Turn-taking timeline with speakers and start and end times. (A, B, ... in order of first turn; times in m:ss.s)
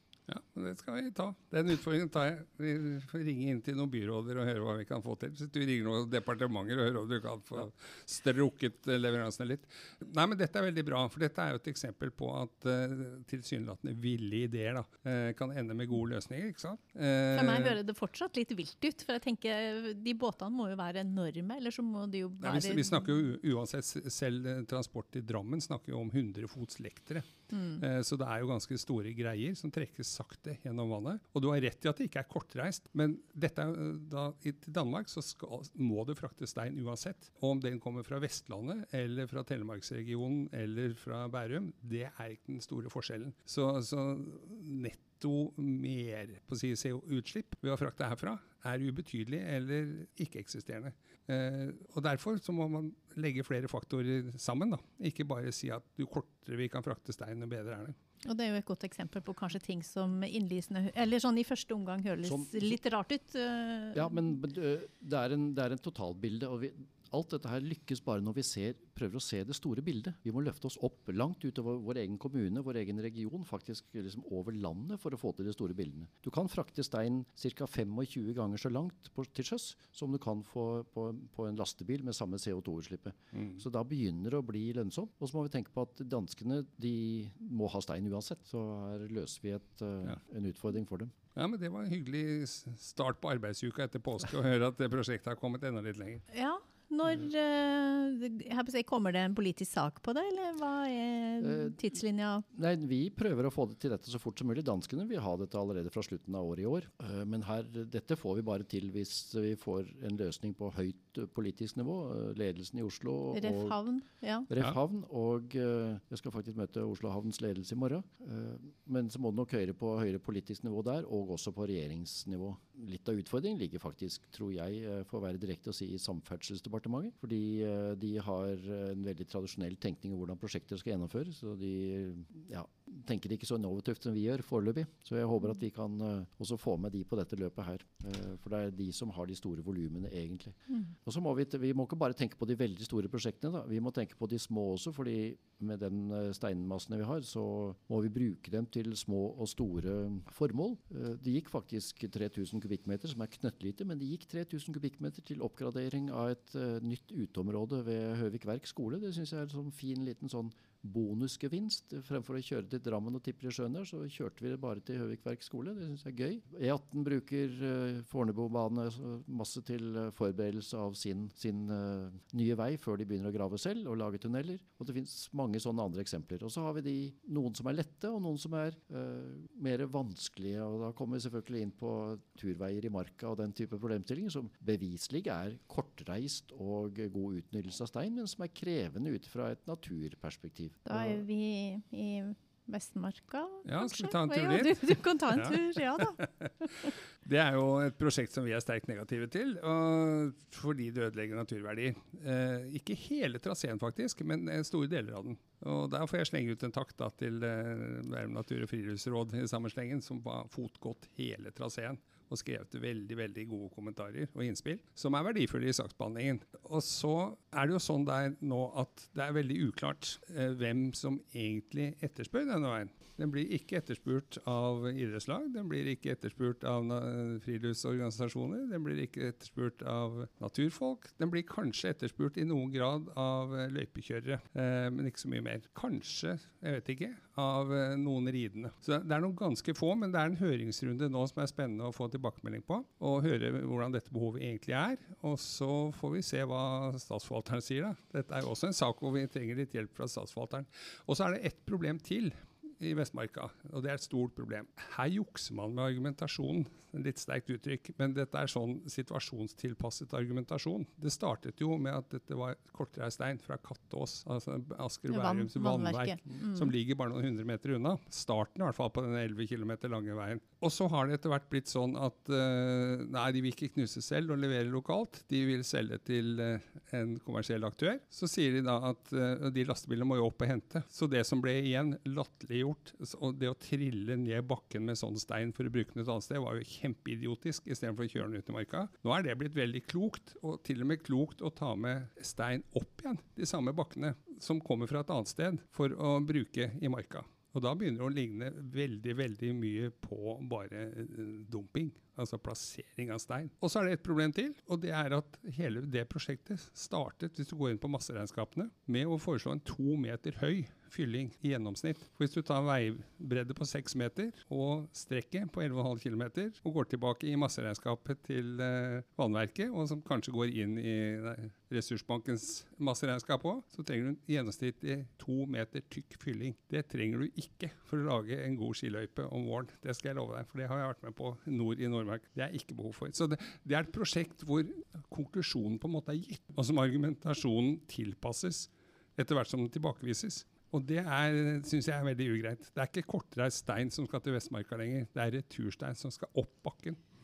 0:00.3-0:17.8 A
0:17.3-0:23.1 B
0:22.4-0:58.0 A
0:27.5-0:27.8 B
0:58.2-1:04.2 B
1:02.2-1:02.8 C
1:03.9-1:31.1 C
1:23.3-1:23.6 A
1:31.4-1:36.2 A
1:36.3-1:42.4 B
1:41.4-1:41.8 C
1:42.5-1:53.8 C
1:53.3-1:54.5 B
1:54.5-3:11.2 C
3:10.9-3:16.9 B
3:13.6-5:47.0 A
4:25.1-4:26.7 B